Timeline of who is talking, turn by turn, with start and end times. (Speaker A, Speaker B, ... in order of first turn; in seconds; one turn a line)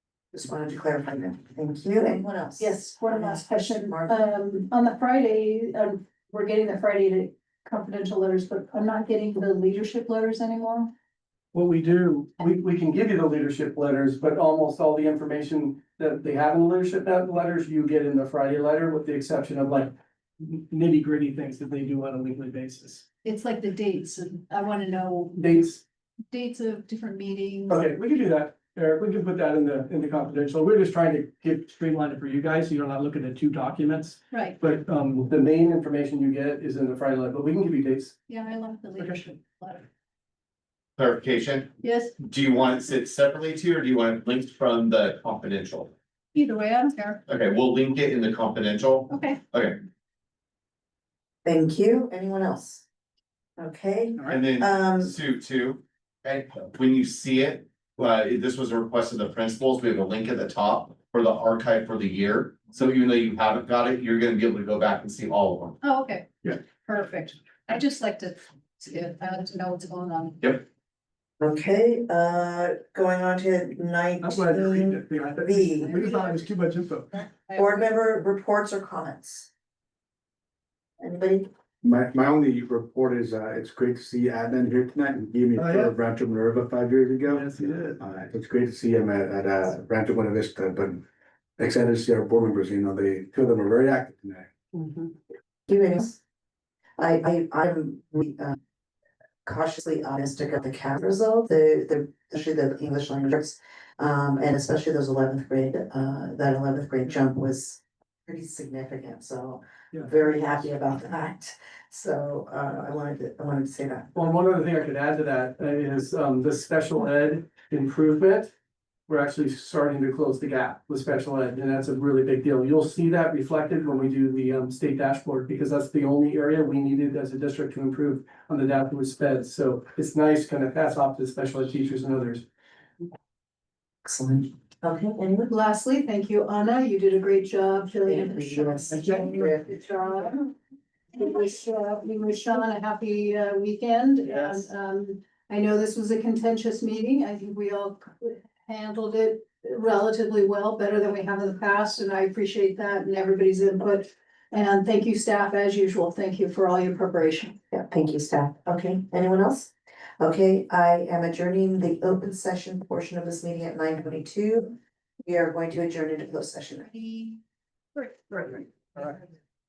Speaker A: 0.3-4.3
Speaker B: 2.6-10.9
Speaker C: 11.5-23.1
Speaker B: 23.2-25.5
Speaker C: 25.4-25.8
Speaker B: 26.3-27.9
Speaker C: 27.7-38.2
Speaker B: 34.3-34.6
Speaker B: 38.3-39.9
Speaker D: 41.0-45.9
Speaker B: 41.8-42.2
Speaker B: 46.3-47.2
Speaker D: 47.3-49.8
Speaker B: 49.1-49.4
Speaker A: 51.5-52.9
Speaker A: 53.6-55.1
Speaker D: 54.3-65.8
Speaker B: 65.8-70.5
Speaker A: 71.4-76.0
Speaker C: 74.2-77.2
Speaker B: 75.8-76.5
Speaker B: 77.1-77.9
Speaker A: 77.5-79.5
Speaker A: 81.0-81.5
Speaker E: 81.8-91.0
Speaker C: 85.6-85.9
Speaker C: 87.3-88.0
Speaker E: 91.6-94.5
Speaker C: 94.7-95.1
Speaker A: 95.7-96.2
Speaker A: 97.0-98.6
Speaker A: 99.5-114.1
Speaker C: 114.1-118.5
Speaker C: 119.1-132.5
Speaker A: 134.1-135.5
Speaker B: 135.5-140.5
Speaker A: 138.1-139.8
Speaker C: 138.9-139.4
Speaker B: 141.1-157.6
Speaker A: 157.7-167.4
Speaker A: 168.3-169.3